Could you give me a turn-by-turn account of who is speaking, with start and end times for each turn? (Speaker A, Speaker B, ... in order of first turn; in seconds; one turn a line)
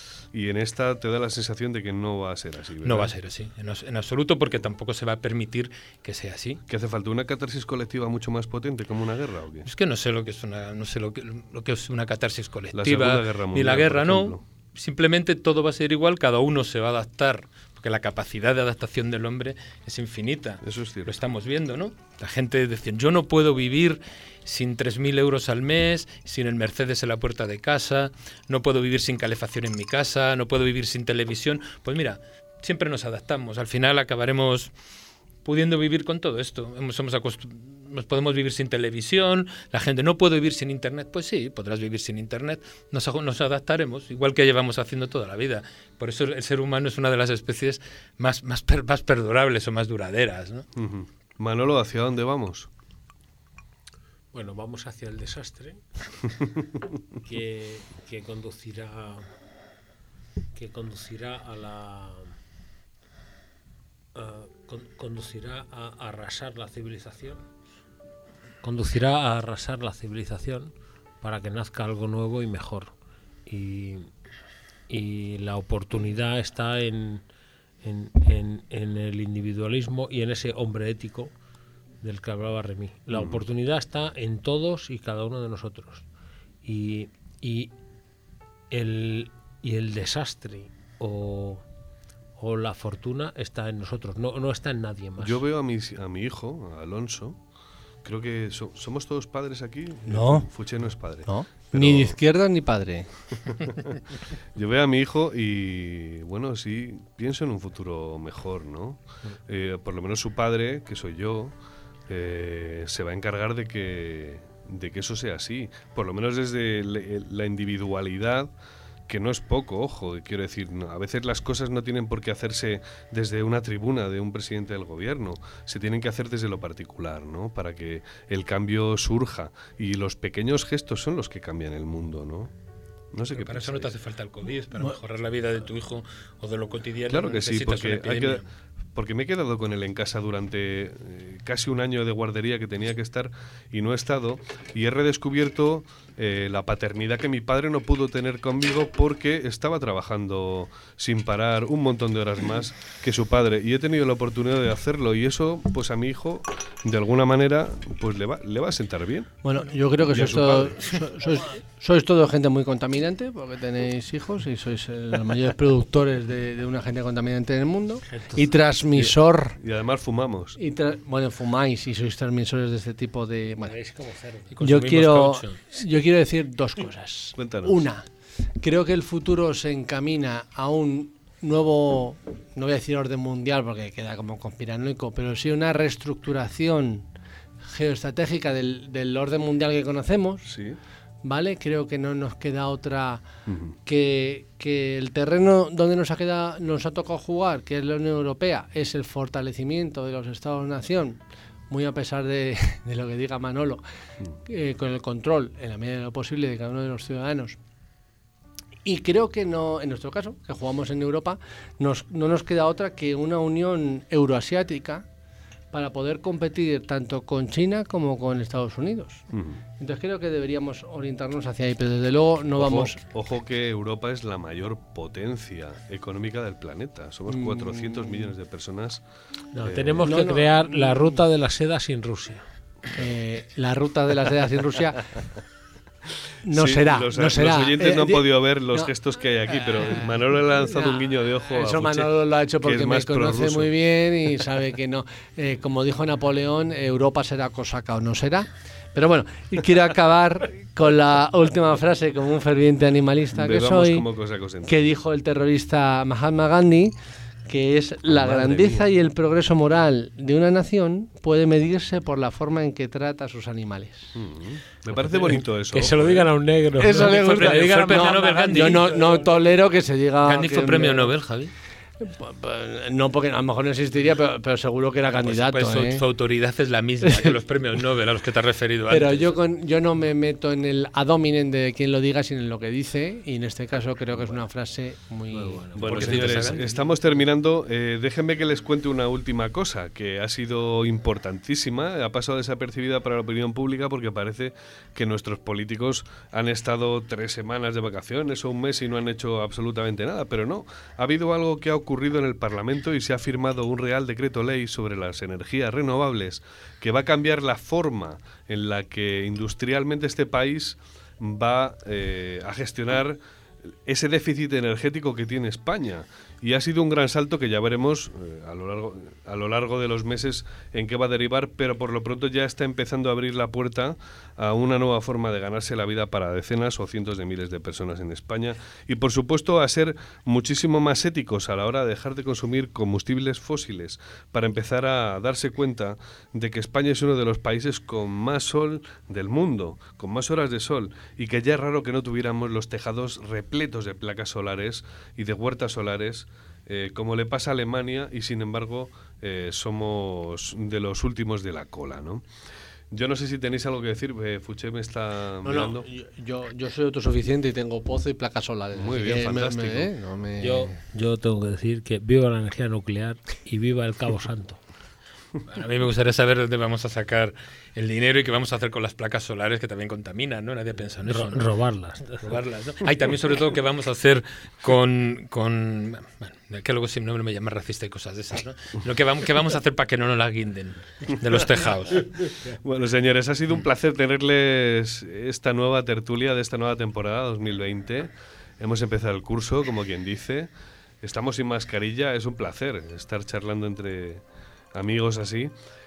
Speaker A: 0.3-3.1
Speaker B: 2.8-6.6
Speaker A: 6.7-9.7
Speaker B: 9.7-34.7
Speaker A: 12.7-14.4
Speaker A: 20.6-21.2
Speaker B: 35.4-50.7
Speaker A: 50.8-52.7
Speaker C: 54.3-55.8
Speaker C: 57.2-59.3
Speaker C: 60.5-62.3
Speaker C: 64.2-67.4
Speaker C: 68.6-72.9
Speaker C: 73.5-74.1
Speaker C: 74.9-77.2
Speaker C: 77.8-81.3
Speaker C: 82.0-86.0
Speaker A: 83.1-83.4
Speaker C: 86.6-87.7
Speaker C: 88.7-91.6
Speaker C: 92.4-95.4
Speaker A: 95.2-97.4
Speaker A: 98.0-102.2
Speaker D: 100.1-100.5
Speaker D: 101.3-103.1
Speaker A: 104.6-111.5
Speaker A: 112.1-118.5
Speaker A: 119.1-132.5
Speaker A: 133.1-133.9
Speaker B: 133.3-138.5
Speaker A: 137.1-138.4
Speaker A: 138.9-159.3
Speaker D: 159.4-169.6
Speaker A: 160.1-160.8
Speaker C: 168.1-168.4
Speaker A: 168.9-170.6
Speaker D: 170.6-173.7
Speaker C: 173.6-174.6
Speaker B: 174.5-175.6
Speaker D: 174.6-178.1
Speaker A: 177.4-177.8
Speaker D: 178.6-187.1
Speaker D: 187.7-190.5
Speaker A: 190.4-190.8
Speaker D: 191.2-193.2
Speaker A: 193.5-193.8
Speaker D: 193.8-203.8
Speaker D: 204.4-207.6
Speaker D: 208.8-215.1
Speaker D: 215.7-219.3
Speaker A: 219.3-219.6
Speaker D: 219.8-223.0
Speaker A: 222.6-229.0
Speaker D: 227.3-228.3
Speaker C: 229.5-232.4
Speaker A: 229.6-230.2
Speaker D: 230.0-231.2
Speaker D: 232.9-235.1
Speaker D: 236.4-238.9
Speaker A: 236.5-242.1
Speaker D: 239.5-254.0
Speaker A: 242.6-243.7
Speaker A: 253.3-254.8
Speaker D: 254.6-264.1
Speaker A: 258.1-258.8
Speaker A: 264.1-266.3
Speaker C: 264.9-269.4
Speaker D: 266.8-271.1
Speaker B: 267.0-268.9
Speaker B: 270.2-271.5
Speaker D: 272.0-276.0
Speaker B: 275.2-279.4
Speaker D: 277.0-277.3
Speaker D: 278.9-286.4
Speaker C: 285.3-286.9
Speaker A: 285.7-313.2
Speaker B: 285.8-286.6
Speaker A: 313.9-352.2
Speaker A: 352.9-355.9
Speaker D: 355.4-360.8
Speaker A: 358.7-359.9
Speaker C: 360.4-364.6
Speaker B: 365.5-371.4
Speaker C: 371.1-372.3
Speaker B: 372.2-382.3
Speaker A: 382.2-390.5
Speaker A: 391.0-394.2
Speaker A: 394.7-395.5